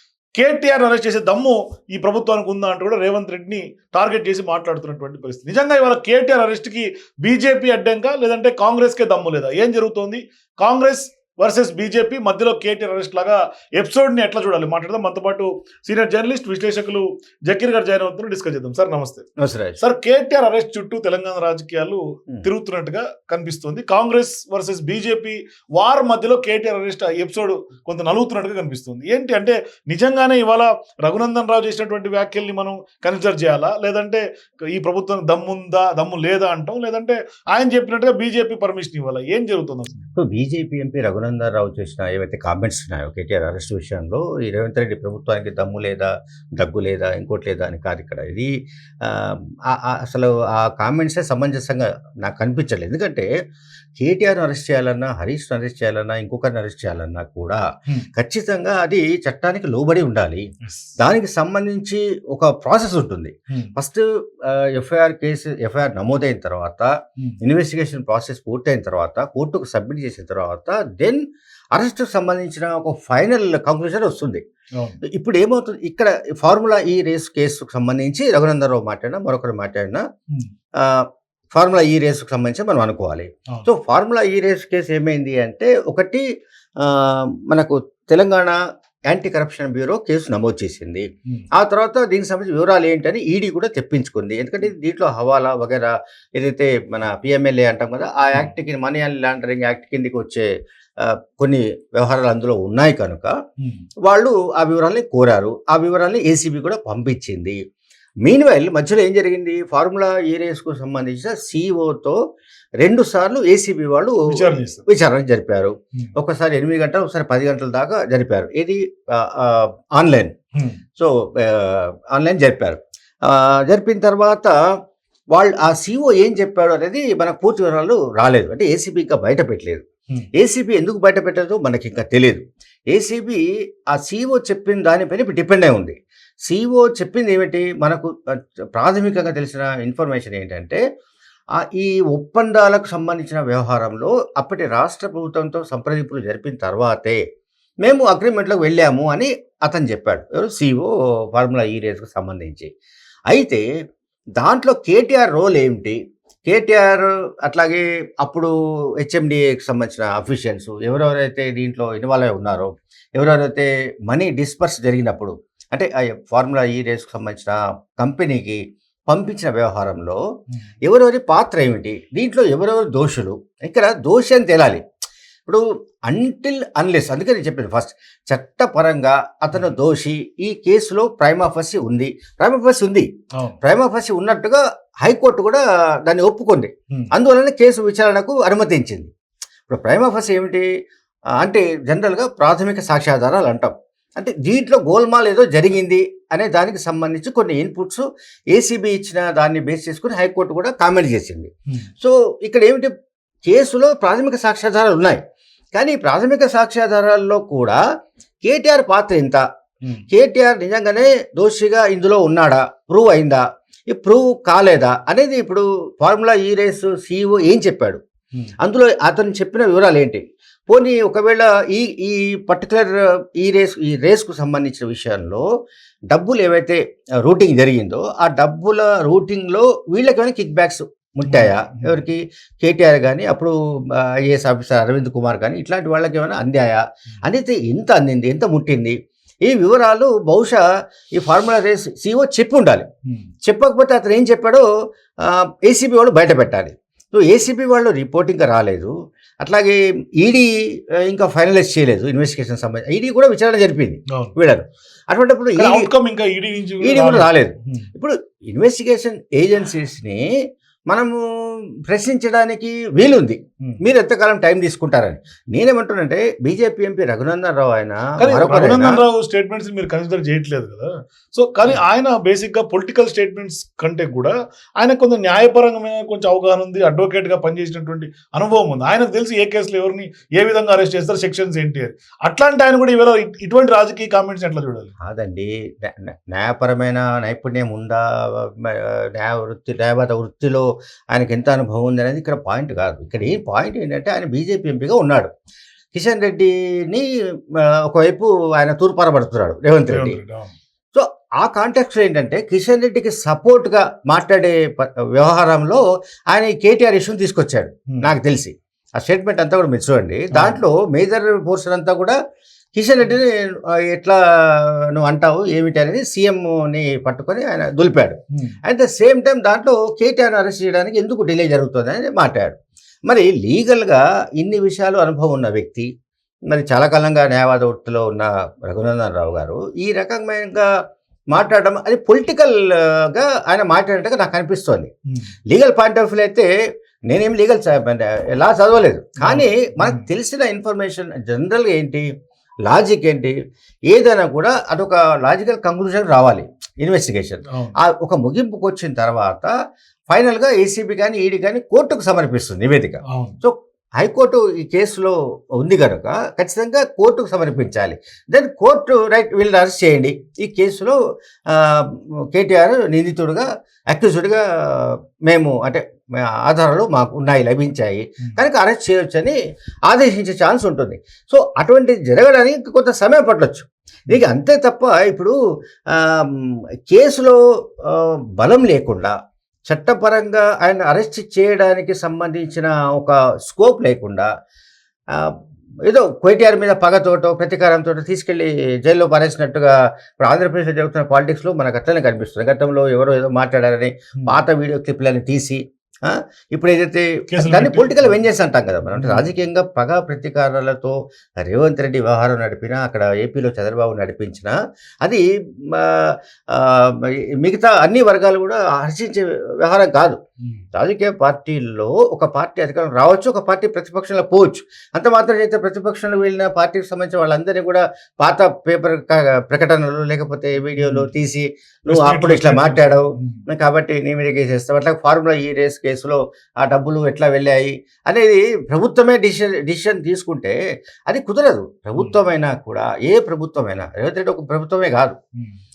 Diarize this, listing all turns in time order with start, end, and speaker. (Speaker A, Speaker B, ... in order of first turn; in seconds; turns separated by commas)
Speaker A: 0.3-19.3, Speaker B: 19.4-19.8, Speaker A: 19.8-40.0, Speaker B: 40.2-48.5, Speaker B: 49.0-53.3, Speaker B: 54.0-57.6, Speaker B: 58.1-60.5, Speaker A: 60.6-61.0, Speaker B: 61.0-66.9, Speaker B: 67.4-71.2, Speaker B: 71.7-74.4, Speaker B: 75.0-80.0, Speaker B: 81.5-86.2, Speaker B: 86.8-88.6, Speaker B: 89.1-103.3, Speaker A: 103.6-103.8, Speaker B: 104.0-107.6, Speaker B: 108.2-112.2, Speaker B: 112.8-114.2, Speaker A: 114.3-114.8, Speaker B: 114.9-120.3, Speaker B: 121.0-124.5, Speaker B: 125.3-129.8, Speaker B: 130.4-135.9, Speaker B: 136.5-138.1, Speaker B: 138.7-140.8, Speaker B: 141.6-147.2, Speaker B: 147.8-152.7, Speaker B: 153.3-153.6, Speaker B: 154.4-155.9, Speaker B: 156.5-170.2, Speaker B: 170.8-174.8, Speaker B: 175.4-183.1, Speaker B: 183.6-189.1, Speaker B: 189.7-190.7, Speaker B: 191.4-202.9, Speaker B: 203.4-205.2, Speaker B: 205.7-207.8, Speaker B: 208.4-209.4, Speaker B: 210.1-218.0, Speaker B: 218.6-225.4, Speaker B: 226.1-240.6, Speaker A: 231.2-232.0, Speaker B: 241.1-242.8, Speaker B: 243.4-244.6, Speaker B: 245.2-255.9, Speaker A: 255.6-257.9, Speaker B: 256.8-260.2, Speaker B: 260.9-261.2, Speaker B: 261.9-269.0, Speaker A: 268.2-284.9, Speaker B: 285.0-295.3, Speaker B: 295.9-300.2, Speaker A: 299.9-300.5, Speaker B: 300.9-312.1, Speaker A: 310.3-310.6, Speaker B: 312.7-325.9, Speaker B: 326.5-330.7, Speaker B: 331.3-334.9, Speaker B: 335.5-336.5, Speaker B: 337.1-342.1, Speaker A: 339.2-340.1, Speaker B: 342.6-343.3, Speaker B: 343.9-349.5, Speaker A: 347.5-347.8, Speaker B: 350.1-360.9, Speaker A: 353.1-353.4, Speaker B: 361.5-375.3, Speaker B: 375.9-379.1, Speaker B: 379.7-384.3, Speaker B: 385.9-410.2, Speaker A: 397.3-398.2, Speaker A: 398.9-399.3, Speaker B: 410.7-430.6, Speaker A: 420.8-421.1, Speaker A: 421.9-423.4, Speaker B: 431.1-435.1